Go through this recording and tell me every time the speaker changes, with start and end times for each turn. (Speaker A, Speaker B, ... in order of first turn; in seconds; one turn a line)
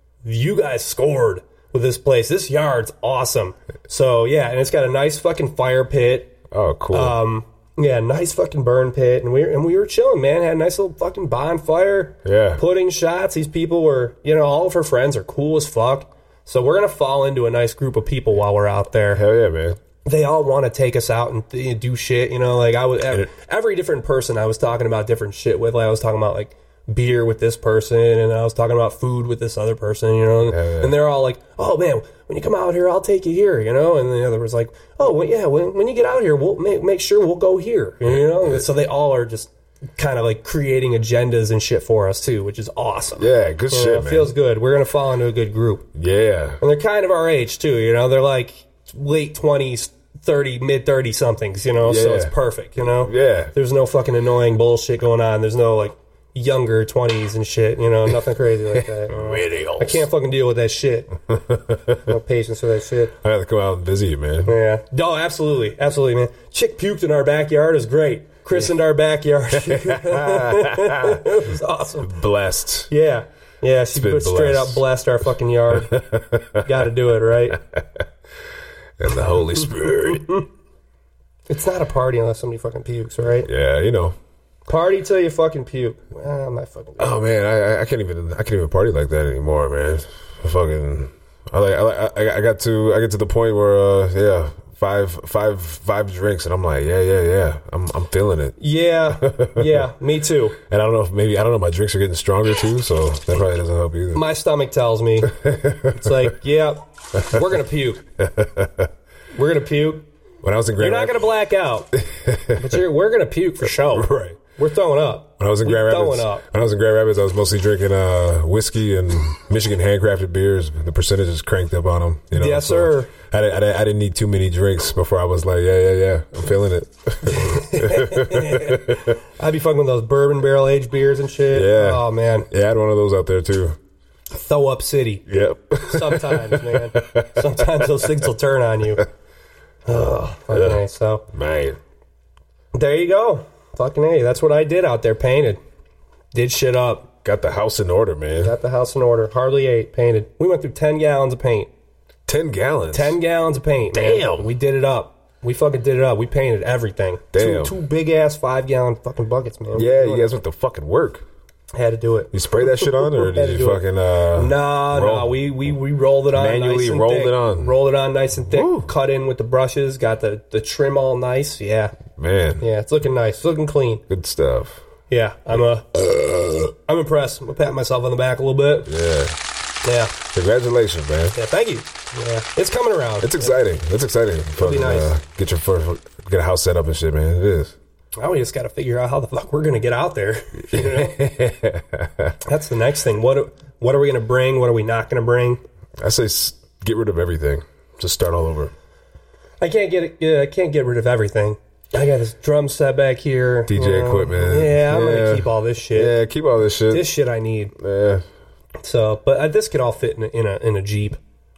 Speaker A: 0.2-6.3
Speaker B: 6.5-7.2
Speaker A: 6.9-19.2
Speaker B: 12.2-12.6
Speaker B: 19.1-19.8
Speaker A: 20.1-45.9
Speaker B: 30.4-30.9
Speaker B: 38.1-38.6
Speaker B: 43.2-44.3
Speaker B: 45.9-46.6
Speaker A: 46.6-61.1
Speaker B: 51.8-53.5
Speaker B: 58.8-60.1
Speaker B: 61.3-62.0
Speaker A: 62.1-63.1
Speaker B: 63.2-64.6
Speaker A: 64.5-72.1
Speaker B: 69.6-71.4
Speaker B: 72.0-72.9
Speaker A: 72.9-76.0
Speaker B: 73.9-74.8
Speaker B: 75.7-76.7
Speaker A: 76.6-77.6
Speaker B: 77.5-78.0
Speaker B: 79.0-80.3
Speaker A: 80.0-80.5
Speaker A: 81.5-83.5
Speaker B: 83.5-84.2
Speaker A: 84.7-87.2
Speaker B: 87.0-98.6
Speaker A: 98.6-100.6
Speaker B: 99.1-99.9
Speaker B: 100.7-104.2
Speaker A: 104.1-105.3
Speaker B: 105.3-106.3
Speaker A: 105.9-108.0
Speaker B: 108.2-108.9
Speaker A: 109.3-110.1
Speaker B: 110.4-111.3
Speaker A: 110.8-111.9
Speaker B: 112.0-112.7
Speaker A: 112.6-116.4
Speaker B: 113.6-114.4
Speaker B: 115.4-129.1
Speaker A: 122.3-123.1
Speaker A: 127.3-132.5
Speaker B: 131.5-133.8
Speaker A: 134.3-135.3
Speaker B: 135.3-138.3
Speaker A: 135.8-139.1
Speaker A: 139.9-141.2
Speaker B: 140.5-141.8
Speaker A: 142.7-145.6
Speaker A: 146.3-147.1
Speaker B: 147.2-148.6
Speaker A: 148.4-151.7
Speaker B: 152.3-153.2
Speaker A: 152.9-160.3
Speaker B: 153.9-154.5
Speaker B: 157.3-157.8
Speaker B: 159.7-161.3
Speaker A: 161.7-163.8
Speaker B: 162.3-165.7
Speaker A: 164.3-171.9
Speaker B: 166.3-167.8
Speaker B: 168.5-168.9
Speaker B: 172.2-172.6
Speaker A: 172.6-174.0
Speaker B: 174.1-174.8
Speaker A: 175.1-175.9
Speaker B: 176.0-176.7
Speaker A: 176.9-178.9
Speaker B: 178.9-179.4
Speaker A: 179.8-180.1
Speaker B: 180.3-181.4
Speaker A: 181.3-183.6
Speaker B: 183.2-187.8
Speaker A: 184.6-185.1
Speaker A: 188.2-191.2
Speaker B: 190.7-192.4
Speaker A: 192.4-195.6
Speaker B: 196.0-198.7
Speaker A: 199.6-206.2
Speaker B: 203.7-207.1
Speaker A: 206.9-207.7
Speaker B: 207.8-208.2
Speaker A: 208.8-211.2